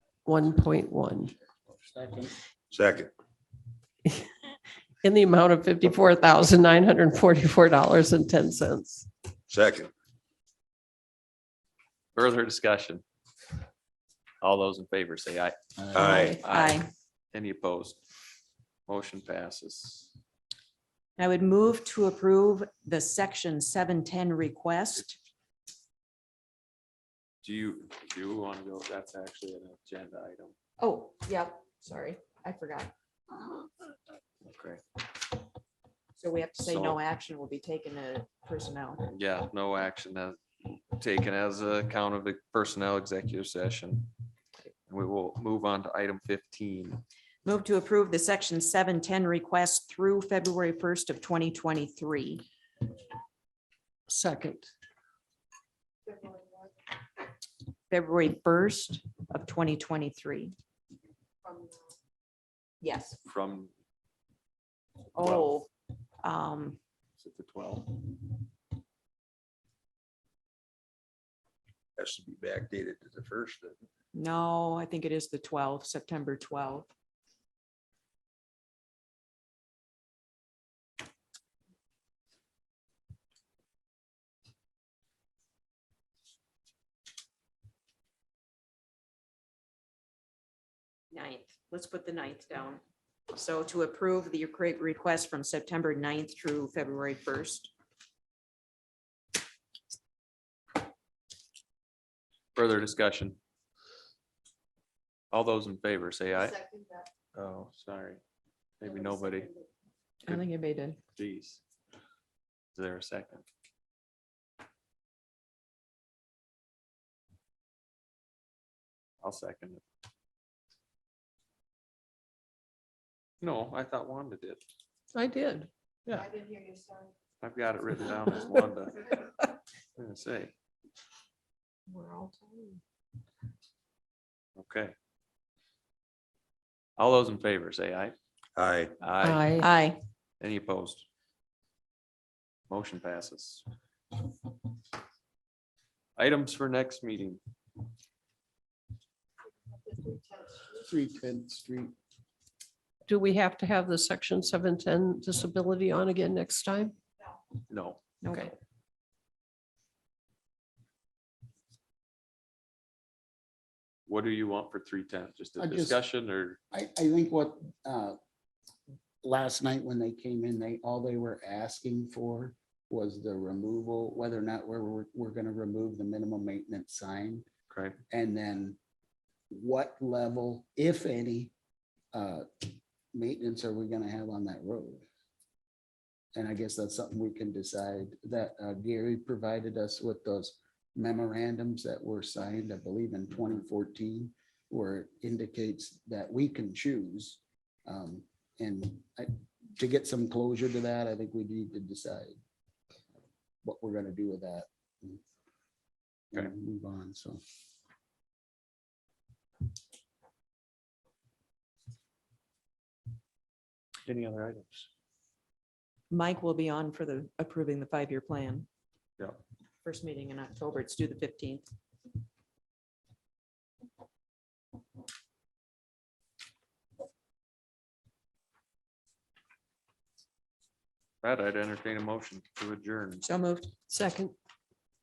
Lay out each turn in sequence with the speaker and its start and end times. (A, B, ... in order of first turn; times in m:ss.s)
0:00.2-0:01.3 A
0:01.9-0:02.3 B
0:02.7-0:03.1 C
0:05.0-0:09.1 A
0:09.5-0:09.9 C
0:12.2-0:13.0 D
0:14.4-0:15.6 D
0:15.8-0:16.2 B
0:16.0-0:16.4 C
0:16.2-0:16.9 E
0:16.4-0:18.0 D
0:18.9-0:20.1 D
0:21.2-0:25.2 E
0:27.4-0:30.6 D
0:30.8-0:32.9 E
0:34.4-0:34.8 D
0:36.2-0:39.0 E
0:36.6-0:37.0 D
0:39.1-0:44.1 D
0:44.9-0:47.0 D
0:47.4-0:52.4 E
0:54.1-0:54.7 A
0:57.9-1:00.6 E
1:02.8-1:03.2 E
1:03.2-1:03.7 D
1:05.2-1:05.7 E
1:05.2-1:05.6 D
1:06.2-1:06.8 E
1:07.2-1:08.2 D
1:12.0-1:13.8 C
1:14.1-1:16.9 E
1:31.1-1:37.7 E
1:42.6-1:43.4 D
1:45.3-1:46.7 D
1:47.4-1:48.2 D
1:48.8-1:49.5 D
1:50.2-1:51.0 E
1:51.2-1:51.6 D
1:52.8-1:53.4 D
1:59.2-1:59.8 D
2:03.4-2:04.6 D
2:05.1-2:05.7 A
2:06.1-2:06.4 D
2:07.4-2:09.2 D
2:10.0-2:10.5 D
2:11.9-2:12.8 A
2:14.6-2:15.0 D
2:17.0-2:18.2 D
2:18.6-2:18.9 C
2:19.0-2:19.6 D
2:19.2-2:19.7 A
2:19.6-2:20.0 E
2:20.4-2:21.1 D
2:22.7-2:23.6 D
2:26.2-2:27.4 D
2:30.7-2:31.9 B
2:33.1-2:37.0 A
2:37.7-2:38.0 D
2:38.2-2:38.5 E
2:44.1-2:46.6 D
2:45.6-2:46.0 B
2:46.7-2:48.2 B
2:49.2-2:57.5 B
2:57.7-2:58.0 D
2:58.1-2:58.8 B
2:59.5-3:01.5 B
3:02.1-3:05.0 B
3:06.4-3:22.4 B
3:23.6-3:25.2 B
3:26.3-3:27.4 B
3:34.0-3:34.9 D
3:36.1-3:38.7 E
3:39.8-3:41.7 E
3:51.2-3:53.3 D
3:53.2-3:53.7 E
3:53.9-3:54.3 A